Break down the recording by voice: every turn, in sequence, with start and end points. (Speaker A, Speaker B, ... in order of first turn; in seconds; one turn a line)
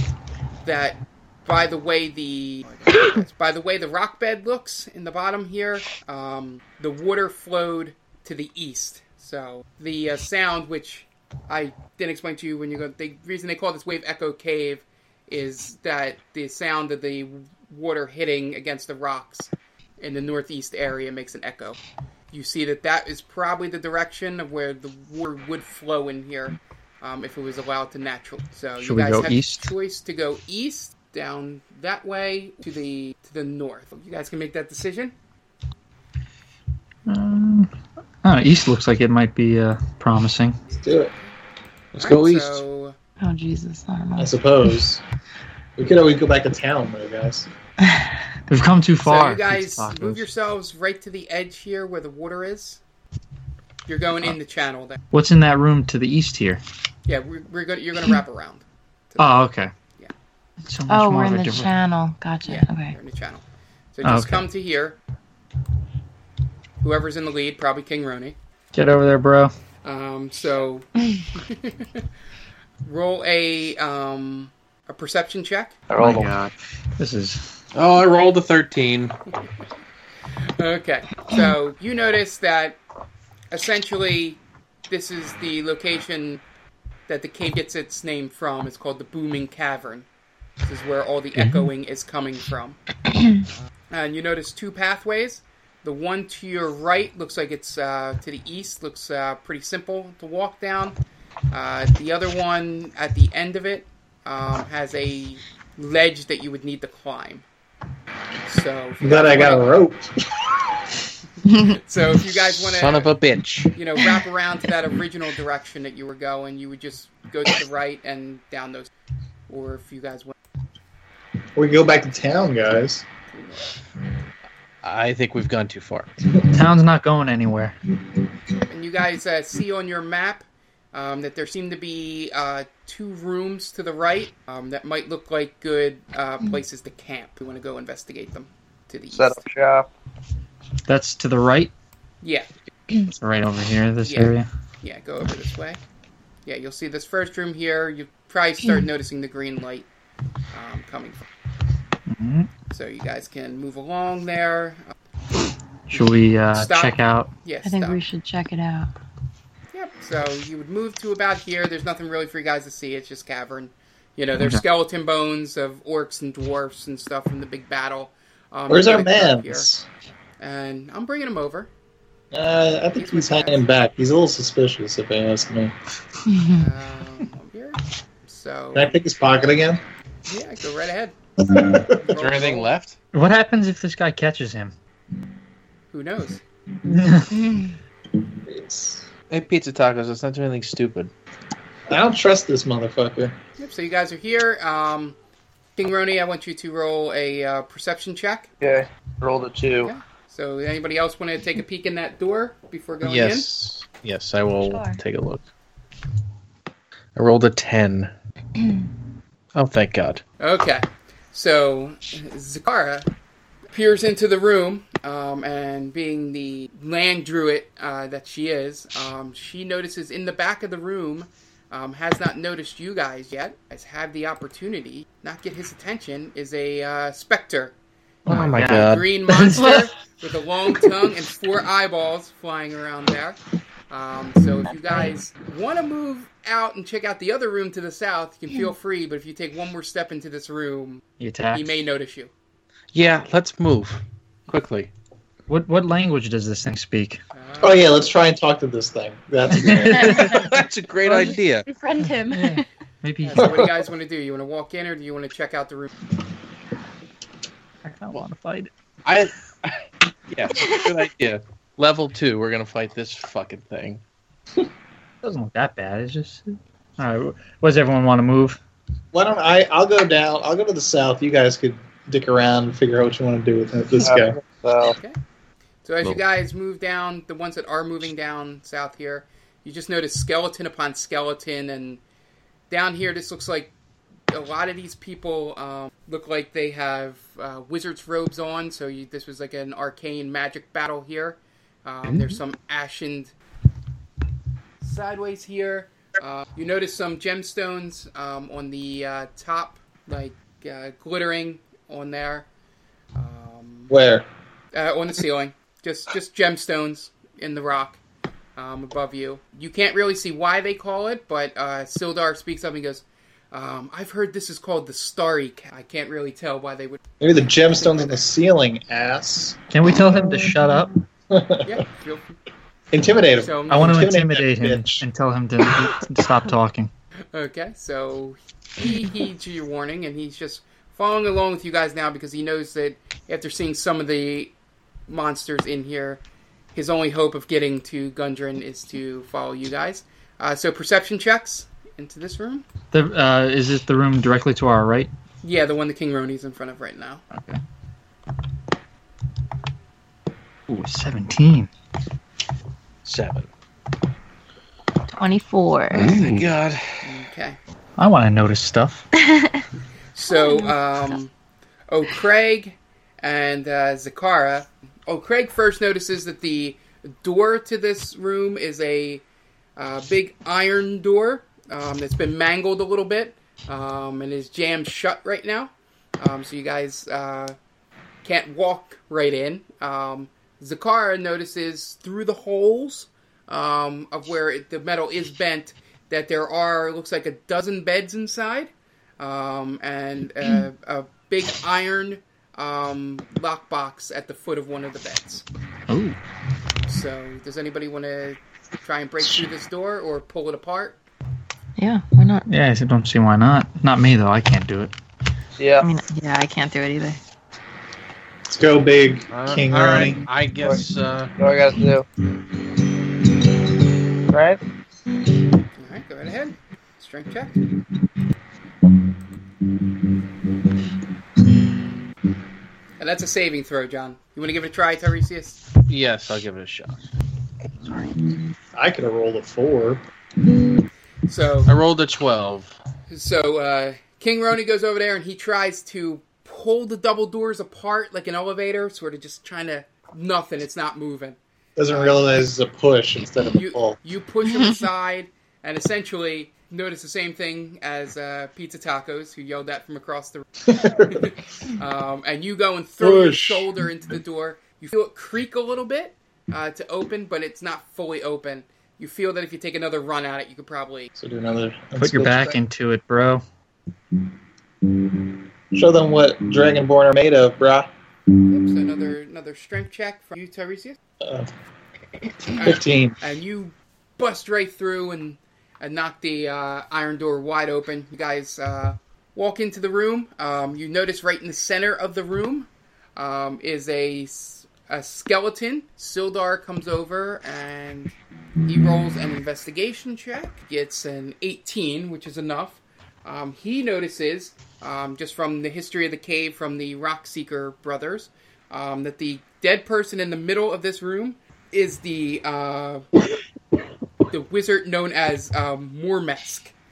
Speaker A: 0.6-21.8
Speaker A: 22.3-35.1
Speaker B: 28.8-29.7
Speaker B: 37.1-37.7
Speaker B: 38.2-40.6
Speaker C: 40.8-41.1
Speaker D: 42.0-42.6
Speaker A: 42.0-43.0
Speaker E: 43.2-44.3
Speaker C: 44.2-45.0
Speaker C: 45.8-47.5
Speaker E: 47.8-48.1
Speaker B: 48.5-50.3
Speaker A: 49.0-52.8
Speaker A: 53.9-55.0
Speaker B: 55.1-56.6
Speaker A: 57.1-60.1
Speaker B: 59.2-59.7
Speaker B: 60.7-61.7
Speaker E: 60.9-63.0
Speaker A: 62.5-65.0
Speaker B: 64.0-64.5
Speaker A: 66.8-68.4
Speaker B: 68.8-69.5
Speaker A: 69.8-72.0
Speaker A: 72.8-75.8
Speaker F: 75.9-76.3
Speaker B: 76.0-77.4
Speaker D: 77.8-79.2
Speaker A: 80.6-82.8
Speaker A: 83.5-86.4
Speaker A: 87.1-90.1
Speaker A: 90.7-92.8
Speaker B: 91.3-91.7
Speaker A: 93.9-101.0
Speaker A: 101.5-107.5
Speaker A: 108.5-109.7
Speaker C: 109.0-110.7
Speaker E: 111.5-111.8
Speaker A: 111.7-113.1
Speaker D: 112.7-113.7
Speaker A: 113.7-118.9
Speaker A: 119.5-120.3
Speaker C: 121.6-123.1
Speaker A: 123.3-123.7
Speaker D: 124.8-126.1
Speaker B: 126.5-127.8
Speaker A: 128.7-139.4
Speaker F: 139.1-139.9
Speaker B: 140.9-141.7
Speaker A: 142.2-142.5
Speaker B: 143.2-144.5
Speaker A: 144.0-145.8
Speaker A: 146.4-149.9
Speaker A: 150.5-151.3
Speaker B: 152.1-152.5
Speaker A: 152.7-154.9
Speaker A: 155.9-158.0
Speaker B: 155.9-157.3
Speaker E: 157.6-158.9
Speaker A: 159.7-169.7
Speaker C: 168.7-169.9
Speaker A: 170.4-171.7
Speaker C: 172.3-175.8
Speaker A: 173.0-173.7
Speaker E: 176.3-176.7
Speaker A: 176.5-179.0
Speaker C: 178.7-179.8
Speaker A: 180.3-181.2
Speaker C: 181.4-182.0
Speaker A: 182.0-182.7
Speaker D: 182.2-183.0
Speaker B: 183.1-184.7
Speaker A: 185.9-186.4
Speaker B: 186.9-187.3
Speaker E: 187.3-187.8
Speaker C: 188.5-189.1
Speaker D: 189.3-191.1
Speaker C: 191.9-193.4
Speaker A: 193.6-195.2
Speaker A: 195.8-198.5
Speaker F: 198.6-199.9
Speaker A: 199.8-203.5
Speaker D: 203.0-205.5
Speaker E: 204.6-205.0
Speaker D: 207.2-208.1
Speaker D: 209.6-210.2
Speaker A: 210.4-213.1
Speaker A: 213.7-227.7
Speaker D: 228.3-229.1
Speaker B: 228.3-229.7
Speaker A: 228.6-233.4
Speaker A: 233.9-242.3
Speaker B: 241.2-241.7
Speaker D: 242.9-244.9
Speaker B: 245.5-247.2
Speaker A: 247.3-248.1
Speaker C: 247.6-250.3
Speaker B: 249.5-250.5
Speaker E: 249.8-250.5
Speaker D: 250.1-251.7
Speaker B: 251.0-251.4
Speaker E: 251.7-252.7
Speaker B: 252.3-253.7
Speaker A: 253.2-255.9
Speaker B: 257.8-258.7
Speaker D: 259.1-264.0
Speaker B: 265.2-268.6
Speaker C: 269.1-274.4
Speaker F: 274.0-275.0
Speaker A: 274.8-275.2
Speaker A: 275.8-282.0
Speaker A: 282.7-283.7
Speaker A: 284.3-293.3
Speaker A: 294.8-302.5
Speaker A: 303.1-303.9
Speaker C: 303.9-304.3
Speaker A: 304.7-308.0
Speaker A: 308.6-317.0
Speaker C: 317.2-319.6
Speaker A: 317.6-318.3
Speaker B: 319.7-321.0
Speaker C: 321.3-321.8
Speaker A: 321.6-322.3
Speaker C: 322.9-325.0
Speaker A: 323.4-324.0
Speaker B: 323.7-326.9
Speaker A: 327.3-334.5
Speaker A: 335.1-336.2
Speaker A: 336.7-342.7
Speaker B: 342.9-345.1
Speaker A: 345.4-347.2
Speaker B: 350.7-351.7
Speaker D: 353.1-353.5
Speaker E: 355.1-356.1
Speaker D: 355.9-357.0
Speaker B: 356.0-356.5
Speaker A: 357.0-357.6
Speaker B: 358.0-359.1
Speaker E: 359.2-359.6
Speaker A: 360.1-361.3
Speaker E: 360.3-360.8
Speaker A: 361.9-369.2
Speaker A: 369.8-377.6
Speaker A: 378.2-395.4
Speaker B: 395.9-396.2
Speaker A: 396.9-401.1
Speaker E: 401.8-402.5
Speaker B: 402.5-404.9
Speaker F: 405.6-405.9
Speaker E: 405.8-407.2
Speaker C: 408.5-410.2
Speaker D: 409.3-411.3
Speaker F: 410.6-412.1
Speaker F: 414.3-414.6
Speaker A: 415.8-417.6
Speaker A: 423.0-425.6
Speaker D: 425.9-427.0
Speaker C: 428.8-430.0
Speaker A: 431.3-431.7
Speaker D: 431.7-432.8
Speaker A: 433.1-441.4
Speaker C: 441.8-444.0
Speaker A: 441.9-442.3
Speaker A: 443.4-450.5
Speaker E: 444.5-444.8
Speaker C: 450.7-451.3
Speaker A: 451.1-461.1
Speaker C: 453.0-453.7
Speaker C: 461.2-462.6
Speaker B: 462.0-463.4
Speaker C: 465.7-467.9
Speaker A: 468.5-471.0
Speaker C: 471.2-471.5
Speaker A: 472.6-488.1
Speaker C: 472.6-473.2
Speaker A: 488.7-503.1
Speaker A: 504.3-506.7